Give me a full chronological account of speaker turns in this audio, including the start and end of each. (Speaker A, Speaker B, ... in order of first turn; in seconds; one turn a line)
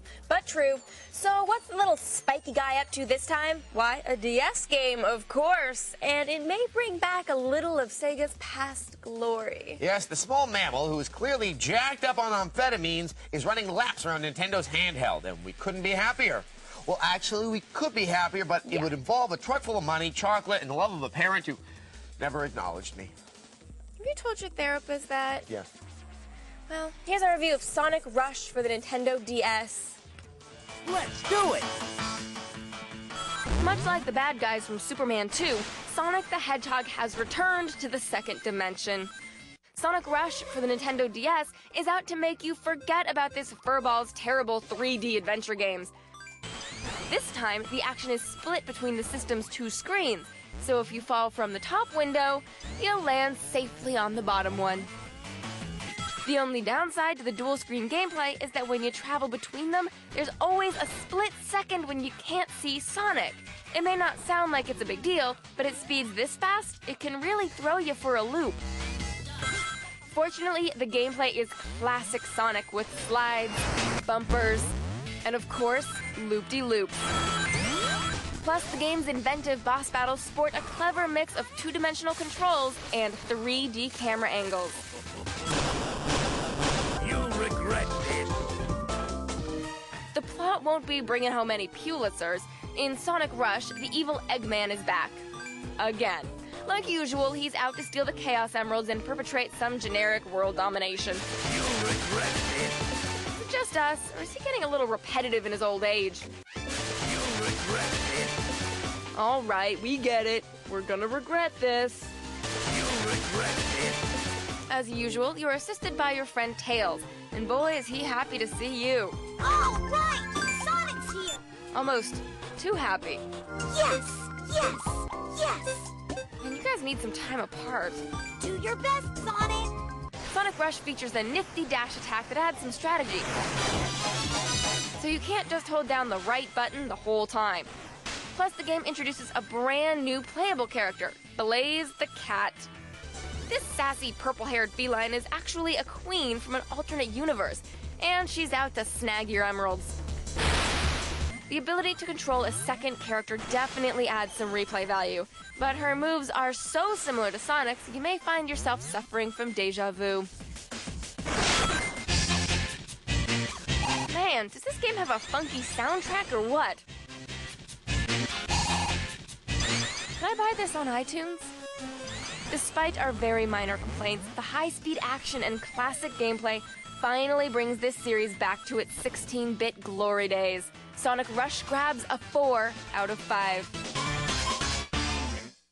Speaker A: 0.3-9.8
Speaker B: 9.8-21.6
Speaker B: 22.2-23.1
Speaker A: 24.0-25.5
Speaker A: 26.7-30.0
Speaker C: 30.8-31.7
Speaker A: 33.6-39.1
Speaker A: 39.7-45.9
Speaker A: 47.0-54.9
Speaker A: 56.2-68.6
Speaker A: 70.1-77.0
Speaker A: 78.4-84.8
Speaker C: 87.0-88.3
Speaker A: 90.1-95.2
Speaker A: 95.8-101.2
Speaker C: 101.7-102.5
Speaker A: 103.3-106.3
Speaker C: 107.2-108.1
Speaker A: 109.1-112.1
Speaker C: 113.2-113.6
Speaker A: 114.7-119.3
Speaker D: 119.4-121.4
Speaker A: 121.7-123.2
Speaker D: 123.7-125.9
Speaker A: 126.4-128.0
Speaker D: 128.4-129.7
Speaker A: 130.3-133.3
Speaker A: 134.9-137.7
Speaker A: 138.3-142.7
Speaker A: 143.5-150.0
Speaker A: 151.5-160.3
Speaker A: 164.1-166.8
Speaker A: 170.2-171.5
Speaker A: 172.5-183.7